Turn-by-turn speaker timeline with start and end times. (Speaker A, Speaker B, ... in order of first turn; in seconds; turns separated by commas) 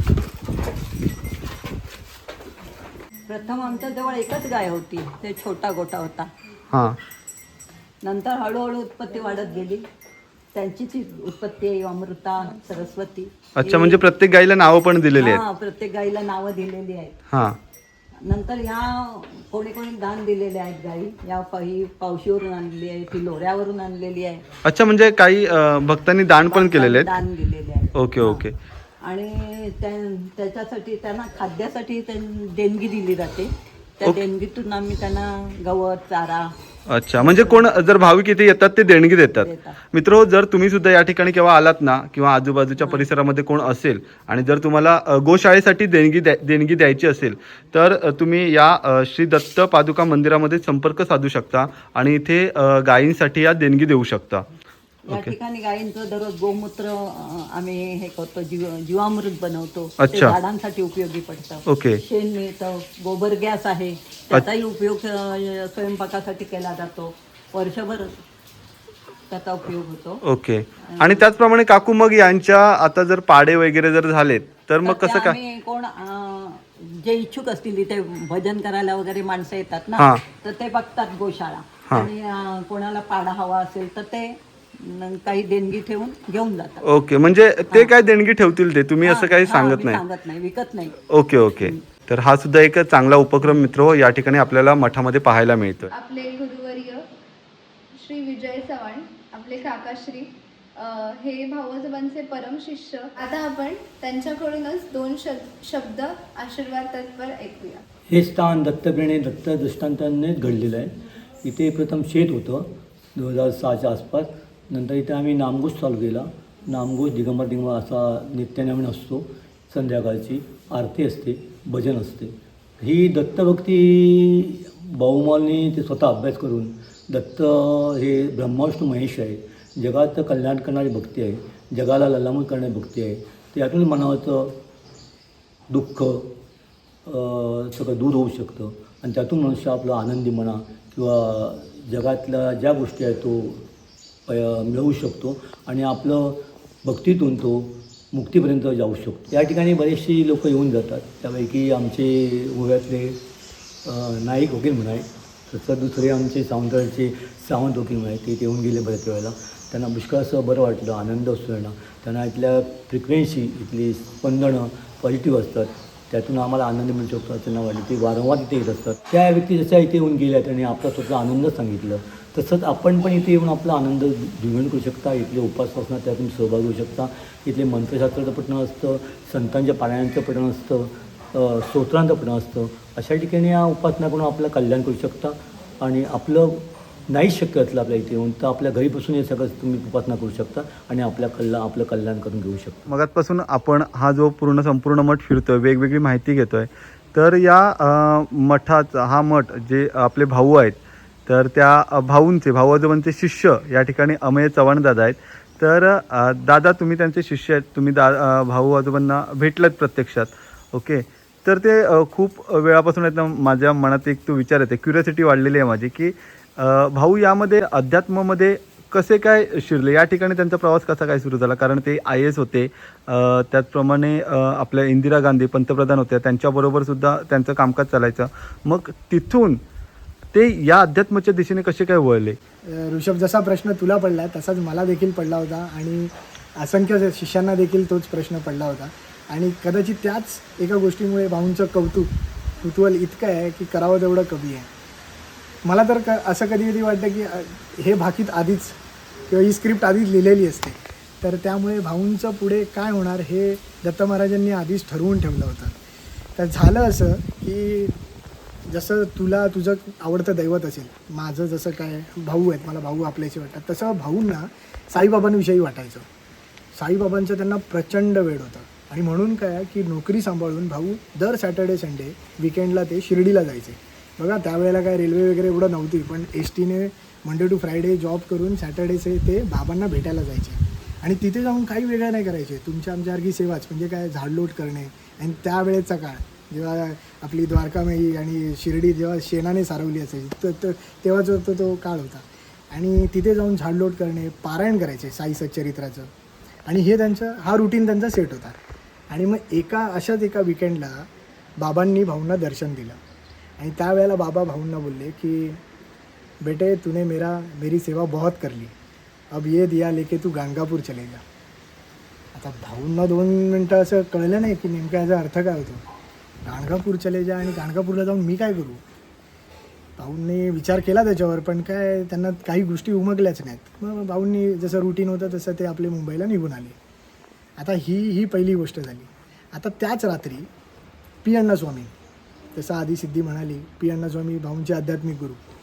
Speaker A: 3.2-6.3, Speaker B: 6.7-7.0, Speaker A: 8.0-9.8, Speaker A: 10.5-14.0, Speaker B: 13.6-15.4, Speaker A: 15.2-17.1, Speaker B: 17.3-17.6, Speaker A: 18.2-24.4, Speaker B: 24.6-27.1, Speaker A: 26.5-28.4, Speaker B: 27.9-28.5, Speaker A: 29.0-36.5, Speaker B: 36.9-54.5, Speaker A: 37.1-37.8, Speaker A: 39.4-39.8, Speaker A: 42.8-43.1, Speaker B: 55.1-55.3, Speaker A: 55.1-68.2, Speaker B: 60.0-60.4, Speaker B: 61.7-62.0, Speaker A: 69.3-70.2, Speaker B: 70.2-75.4, Speaker A: 71.0-71.2, Speaker A: 74.8-86.9, Speaker B: 80.0-80.2, Speaker B: 86.8-90.0, Speaker A: 89.0-91.0, Speaker B: 91.1-95.9, Speaker A: 91.5-91.8, Speaker C: 95.9-97.1, Speaker C: 97.9-107.8, Speaker D: 108.1-134.6, Speaker D: 135.7-136.4, Speaker D: 137.1-143.7, Speaker D: 144.3-153.2, Speaker D: 153.8-192.9, Speaker B: 192.9-229.6, Speaker B: 230.3-232.4, Speaker E: 232.6-244.7, Speaker E: 245.6-255.7, Speaker E: 256.4-258.0, Speaker E: 258.7-266.1, Speaker E: 266.7-296.1, Speaker E: 296.7-298.6, Speaker E: 299.1-303.0, Speaker E: 303.6-305.6, Speaker E: 306.4-308.7, Speaker E: 309.3-311.2, Speaker E: 312.3-315.8, Speaker E: 316.4-318.8, Speaker E: 320.0-326.8, Speaker E: 327.6-330.5, Speaker E: 331.2-331.9, Speaker E: 332.5-335.4